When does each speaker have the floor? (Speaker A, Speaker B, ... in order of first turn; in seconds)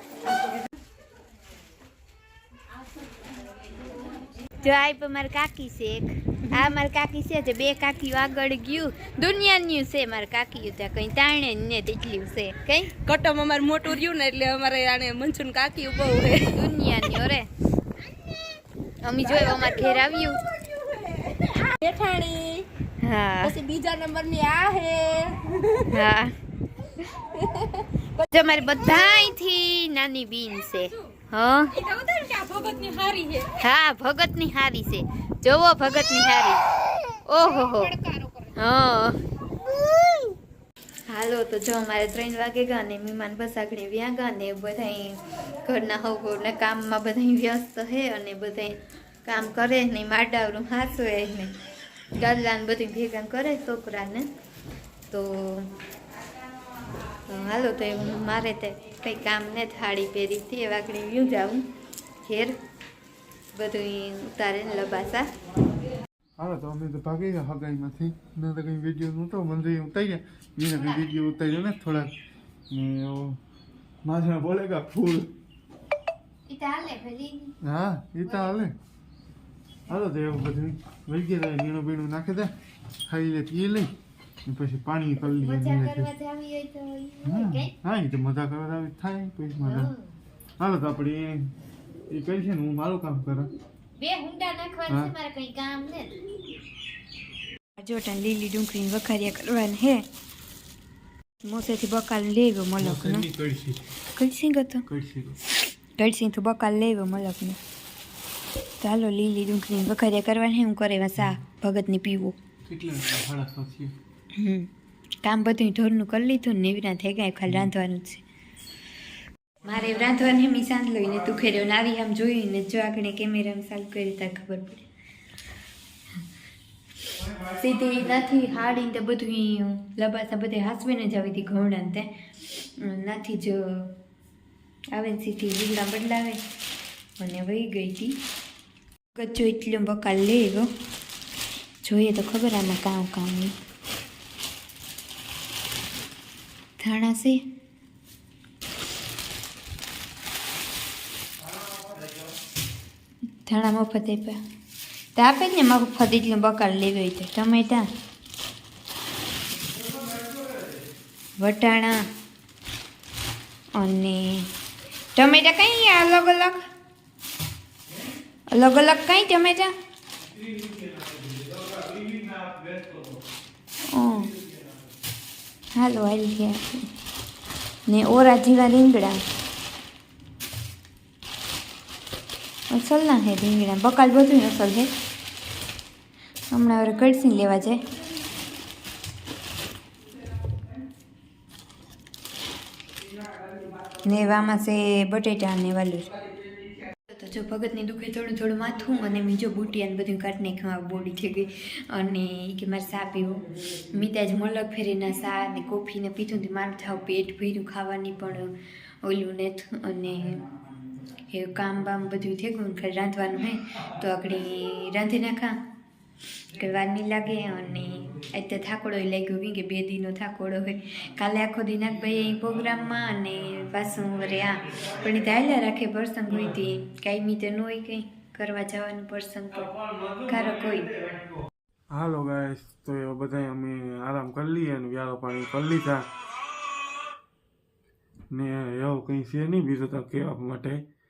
Speaker A: 4.6-12.9, 16.5-17.5, 19.0-20.4, 23.0-23.6, 25.9-26.3, 28.3-31.7, 33.6-36.6, 37.3-38.0, 38.5-39.2, 41.1-51.6, 52.1-54.3, 55.1-55.7, 57.3-61.7, 62.2-62.5, 63.5-65.3, 76.5-77.5, 78.2-78.6, 85.2-87.7, 89.6-90.0, 94.0-96.1, 97.8-100.0, 101.4-103.3, 104.2-104.8, 106.0-107.6, 108.8-112.4, 114.4-114.7, 115.2-118.2, 119.6-124.8, 127.5-133.9, 134.9-136.4, 137.2-138.2, 139.2-140.7, 141.8-143.5, 146.8-147.4, 153.4-154.4, 155.2-157.9, 161.4-162.0, 163.8-164.5, 165.2-166.7, 168.5-169.7, 173.9-174.3, 175.7-176.9, 177.9-179.2, 182.7-184.9, 186.5-187.8, 194.0-196.1, 197.1-210.5, 211.3-215.6, 216.5-229.8, 230.3-230.9
Speaker B: 13.1-16.5, 19.2-19.9, 20.6-22.7, 23.4-25.9, 27.4-27.8, 31.7-33.5, 37.6-38.4
Speaker C: 66.4-72.1, 72.7-73.4, 74.0-75.3, 77.6-78.8, 79.9-82.5, 83.1-83.9, 84.5-86.1, 87.2-89.9, 90.6-91.5, 92.1-93.5, 94.9-95.1, 102.8-103.8, 104.9-105.4, 112.7-114.0, 151.5-152.0, 159.8-160.7, 170.3-173.2, 229.9-231.3, 231.9-236.1, 238.3-240.8